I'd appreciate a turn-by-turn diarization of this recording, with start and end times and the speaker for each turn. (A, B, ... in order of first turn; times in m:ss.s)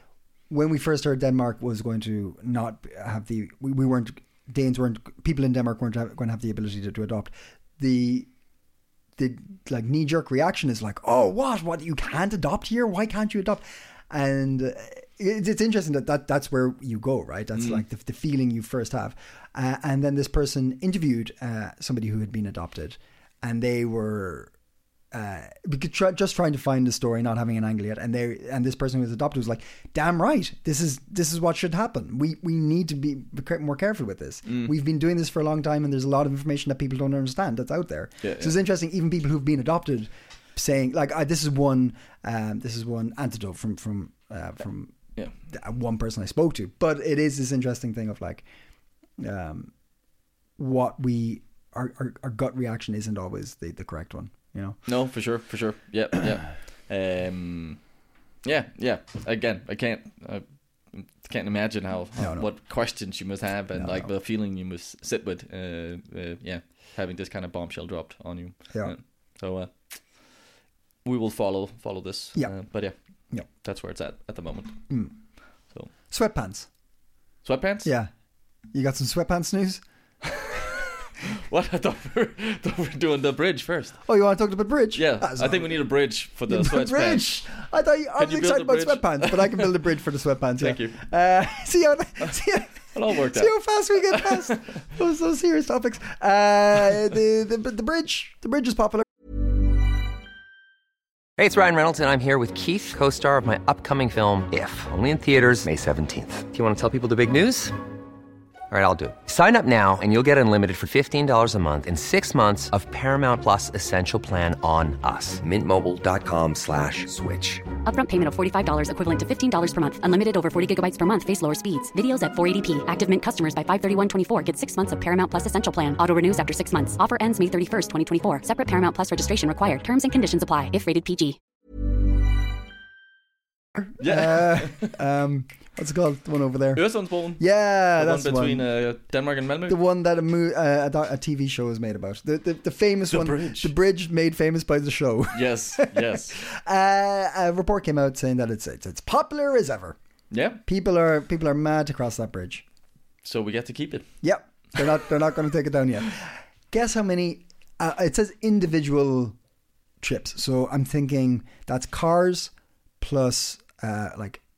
0:00.5-0:08.3 A
0:09.2-0:24.5 A
0:17.6-0:17.8 B
0:25.1-0:45.0 A
0:34.5-0:34.7 B
0:38.2-0:38.5 B
0:45.5-0:48.4 A
0:49.2-0:49.7 A
0:50.6-0:54.8 A
0:54.9-0:57.8 B
0:58.4-1:10.0 B
1:02.2-1:02.5 A
1:03.8-1:04.1 A
1:11.0-1:13.0 B
1:13.5-1:14.8 B
1:16.1-1:16.7 A
1:17.4-1:17.9 B
1:17.8-1:18.1 A
1:18.7-1:19.8 A
1:20.3-1:20.8 B
1:21.3-1:24.0 B
1:24.1-1:25.8 A
1:25.0-1:27.4 B
1:26.5-1:39.1 A
1:28.2-1:29.7 B
1:30.6-1:31.0 B
1:32.9-1:34.6 B
1:41.4-1:47.8 C
1:48.7-1:57.6 C
1:57.8-2:11.4 D
2:13.8-2:16.8 A
2:14.0-2:15.0 B
2:16.8-2:17.4 B
2:17.4-2:18.6 A
2:18.0-2:19.8 B
2:19.7-2:30.0 A
2:23.1-2:23.7 B
2:25.3-2:26.4 B
2:30.3-2:30.6 B
2:30.6-2:32.6 A
2:33.2-2:34.1 B
2:34.2-2:39.4 A
2:40.0-2:44.4 A